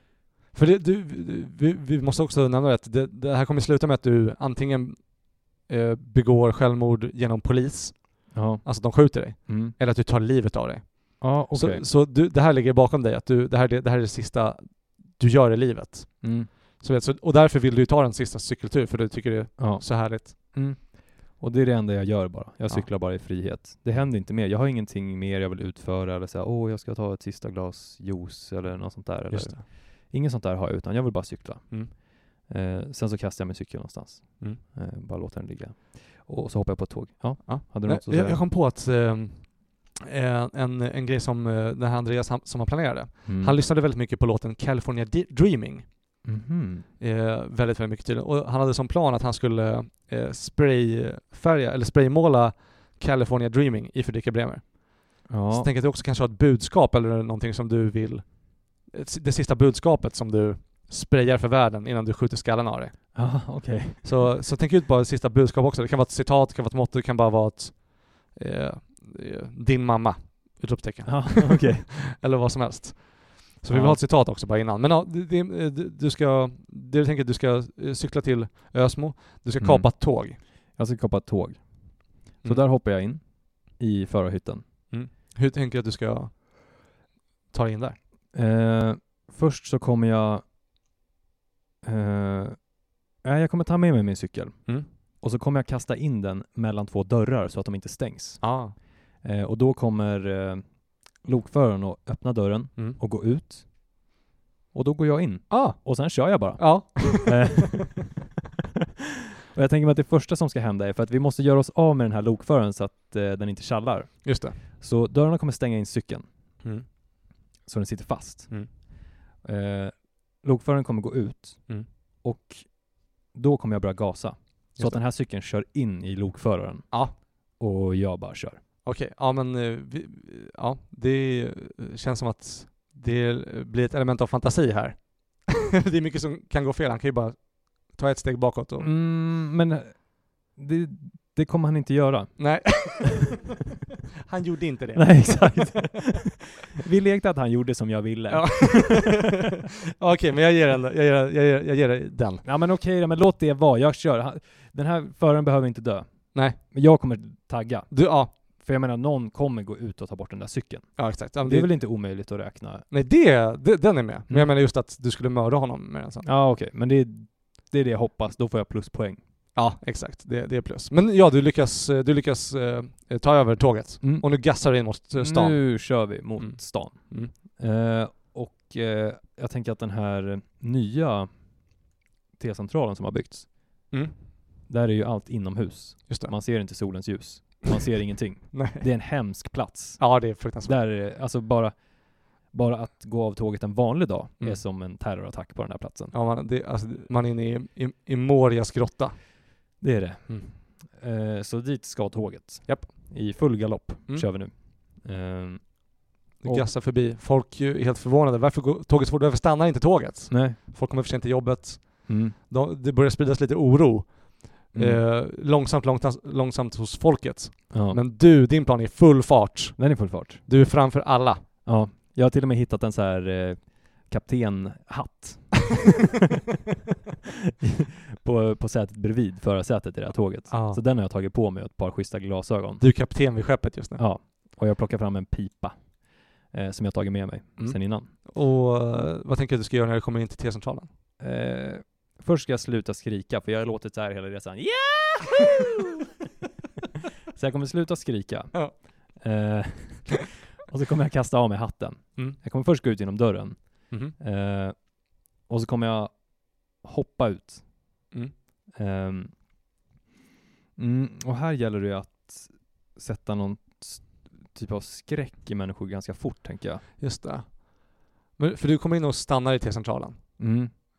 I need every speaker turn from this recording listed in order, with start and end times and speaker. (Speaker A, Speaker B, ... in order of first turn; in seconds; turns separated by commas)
Speaker A: 0.5-20.4, Speaker B: 8.3-9.8, Speaker B: 11.2-11.8, Speaker B: 16.2-16.5, Speaker B: 19.6-38.4, Speaker A: 29.3-29.6, Speaker A: 37.5-46.2, Speaker B: 43.2-43.6, Speaker B: 46.2-46.9, Speaker A: 47.0-63.5, Speaker B: 55.3-55.7, Speaker B: 63.1-64.2, Speaker A: 64.0-80.4, Speaker B: 71.0-71.9, Speaker B: 73.7-74.0, Speaker B: 79.6-84.6, Speaker A: 84.9-86.4, Speaker A: 87.5-88.0, Speaker B: 88.3-90.4, Speaker B: 91.8-98.6, Speaker A: 98.4-98.8, Speaker B: 99.2-103.8, Speaker B: 104.7-108.2, Speaker A: 105.5-107.7, Speaker B: 109.5-116.2, Speaker A: 114.2-114.6, Speaker B: 117.7-118.8, Speaker B: 119.4-128.6, Speaker A: 126.9-127.2, Speaker A: 128.8-138.9, Speaker B: 138.8-143.0, Speaker A: 142.4-143.4, Speaker A: 144.3-145.9, Speaker B: 144.9-149.3, Speaker A: 148.3-152.4, Speaker B: 152.4-162.8, Speaker A: 156.3-156.6, Speaker A: 157.9-158.3, Speaker A: 161.0-161.7, Speaker A: 162.9-166.3, Speaker B: 166.2-169.2, Speaker A: 169.6-177.3, Speaker B: 174.0-174.4, Speaker B: 175.2-181.4, Speaker B: 182.4-183.5, Speaker A: 183.9-184.2, Speaker B: 184.7-196.1, Speaker A: 188.5-188.9, Speaker A: 190.0-190.8, Speaker A: 196.1-199.3, Speaker B: 199.8-206.7, Speaker A: 202.7-203.1, Speaker A: 206.4-221.4, Speaker B: 210.3-210.6, Speaker B: 212.1-212.3, Speaker B: 214.7-215.0, Speaker B: 217.7-218.0, Speaker B: 219.8-220.4, Speaker B: 221.7-226.0, Speaker B: 227.6-232.8, Speaker A: 230.5-230.8, Speaker A: 232.8-234.0, Speaker B: 234.0-238.1, Speaker A: 237.6-240.9, Speaker B: 241.2-246.0, Speaker B: 247.3-257.7, Speaker A: 253.9-254.2, Speaker B: 258.7-259.4, Speaker B: 260.8-266.9, Speaker A: 267.0-270.2, Speaker B: 270.4-270.7